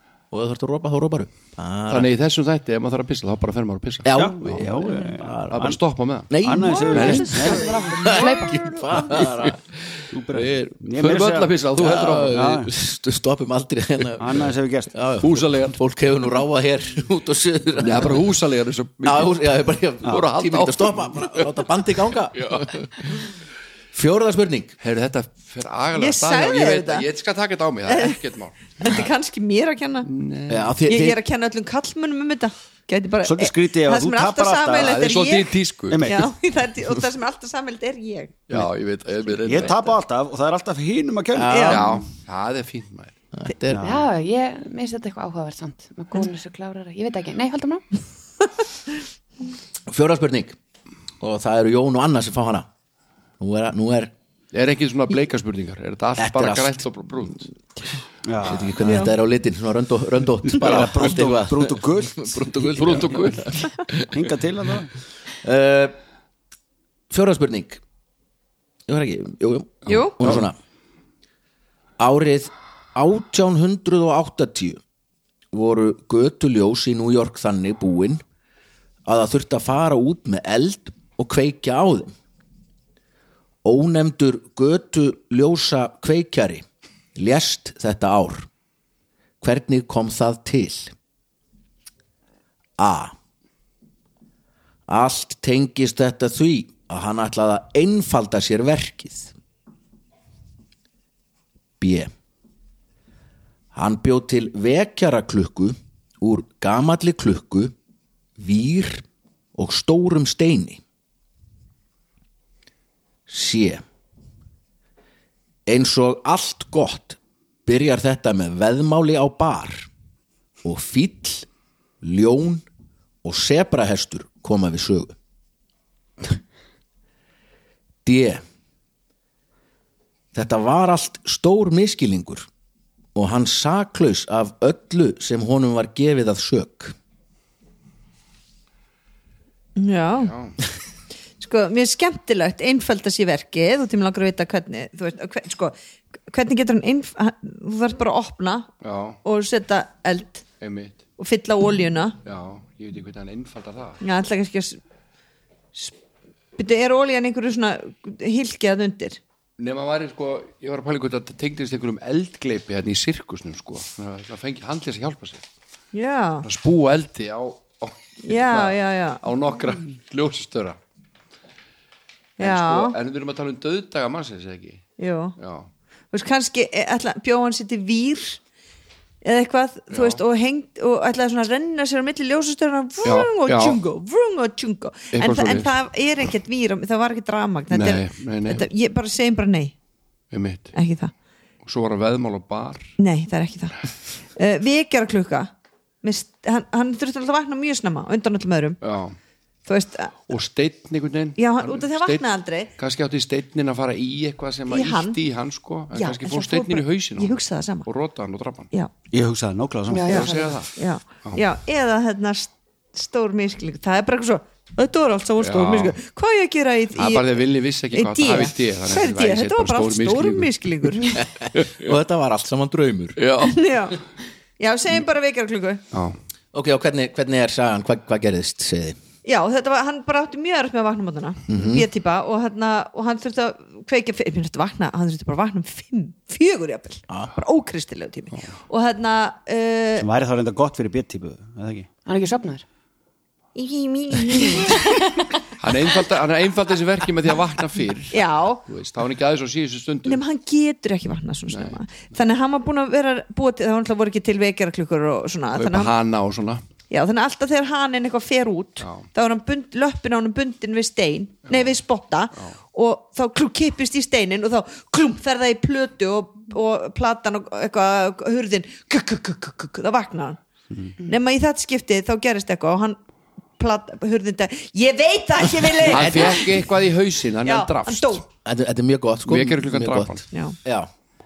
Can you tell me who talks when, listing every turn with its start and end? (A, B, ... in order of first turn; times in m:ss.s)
0:00.3-0:02.1 A
0:01.9-0:04.6 B
0:04.0-0:05.8 A
0:04.1-0:05.8 C
0:05.5-0:06.3 B
0:06.3-0:11.2 A
0:06.4-0:07.8 C
0:06.9-0:08.8 D
0:06.9-0:07.4 B
0:07.0-0:07.7 E
0:09.2-0:09.5 B
0:10.1-0:11.6 C
0:11.0-0:12.5 B
0:11.8-0:18.3 A
0:12.2-0:12.7 C
0:14.2-0:14.9 C
0:15.2-0:15.8 B
0:17.8-0:19.4 B
0:19.0-0:23.0 A
0:20.0-0:21.6 B
0:22.3-0:22.8 B
0:23.9-0:24.7 A
0:24.8-0:29.1 B
0:26.0-0:27.1 E
0:27.9-0:28.2 E
0:28.8-0:30.1 E
0:30.0-0:30.7 B
0:30.5-0:31.2 A
0:30.8-0:38.4 E
0:33.2-0:35.0 C
0:34.7-0:36.2 B
0:35.9-0:36.3 C
0:38.5-0:39.9 B
0:39.4-0:42.0 C
0:41.3-0:42.0 A
0:41.5-0:41.8 E
0:41.7-0:43.2 B
0:43.3-0:44.0 A
0:43.7-0:44.0 C
0:43.8-0:47.8 D
0:49.9-0:50.6 A
0:51.2-0:52.7 A
0:53.4-0:54.1 A
0:54.5-0:57.5 B
0:56.2-0:56.8 A
0:58.2-0:58.8 C
0:58.4-1:04.2 A
0:58.8-0:59.1 E
1:00.5-1:02.6 C
1:02.7-1:03.6 B
1:04.1-1:04.9 C
1:05.4-1:05.9 A
1:07.1-1:07.8 A
1:08.9-1:10.6 A
1:09.9-1:10.2 E
1:09.9-1:10.4 B
1:12.0-1:14.8 A
1:15.5-1:18.2 A
1:19.0-1:22.1 A
1:23.6-1:26.6 A
1:27.2-1:28.5 A
1:29.4-1:30.9 A
1:32.8-1:33.1 A
1:34.9-1:39.3 A
1:41.8-1:42.1 A
1:43.7-1:47.7 A
1:48.4-1:50.8 A
1:53.3-1:53.8 A
1:55.7-1:59.9 A
2:00.6-2:01.5 A
2:02.0-2:02.6 A
2:03.2-2:05.1 A
2:08.0-2:08.4 A
2:10.3-2:12.5 A
2:13.1-2:16.9 A
2:19.8-2:20.4 E
2:20.2-2:20.5 B
2:21.4-2:25.7 E
2:26.3-2:28.7 E
2:28.8-2:29.2 B
2:29.2-2:30.4 E
2:30.6-2:31.0 B
2:31.2-2:32.2 E
2:32.2-2:34.0 B
2:34.0-2:34.8 E
2:36.6-2:39.2 E
2:39.6-2:45.4 B
2:45.9-2:46.4 E
2:46.4-2:50.8 B
2:48.2-2:49.2 E
2:52.4-2:53.0 E
2:52.4-2:55.7 B
2:55.0-2:55.3 E
2:56.1-2:58.4 E
2:59.2-3:09.7 E
2:59.9-3:00.2 B
3:03.0-3:03.8 B
3:05.1-3:05.7 B
3:07.7-3:08.6 B
3:10.3-3:10.8 B
3:10.7-3:11.1 E
3:11.6-3:12.9 B
3:13.0-3:15.5 E
3:16.0-3:18.8 E
3:18.8-3:19.2 B
3:19.6-3:20.3 E
3:20.3-3:28.7 B
3:21.4-3:22.7 E
3:24.7-3:25.2 E
3:25.9-3:27.9 E
3:29.1-3:30.2 C
3:29.9-3:30.6 D
3:30.1-3:37.4 E
3:30.1-3:31.4 B
3:35.4-3:36.0 B
3:36.9-3:40.6 B
3:37.9-3:41.2 E
3:41.4-3:43.2 A
3:41.5-3:41.9 B
3:43.2-3:43.6 B
3:43.4-3:44.0 E
3:44.6-3:45.8 E
3:45.9-3:46.2 B
3:46.5-3:49.0 A
3:49.2-4:00.1 E
3:51.5-3:51.9 A
4:00.0-4:01.9 C
4:02.0-4:02.6 D
4:03.5-4:05.2 E
4:05.6-4:10.2 B
4:08.1-4:08.6 E
4:10.0-4:15.9 E
4:11.5-4:11.8 B
4:15.5-4:16.6 B
4:16.9-4:30.4 E
4:18.8-4:19.1 B
4:31.0-4:33.0 E
4:33.6-4:36.5 E
4:35.8-4:38.2 B
4:35.9-4:36.5 A
4:37.4-4:38.2 E
4:38.4-4:40.9 A
4:39.2-4:40.2 B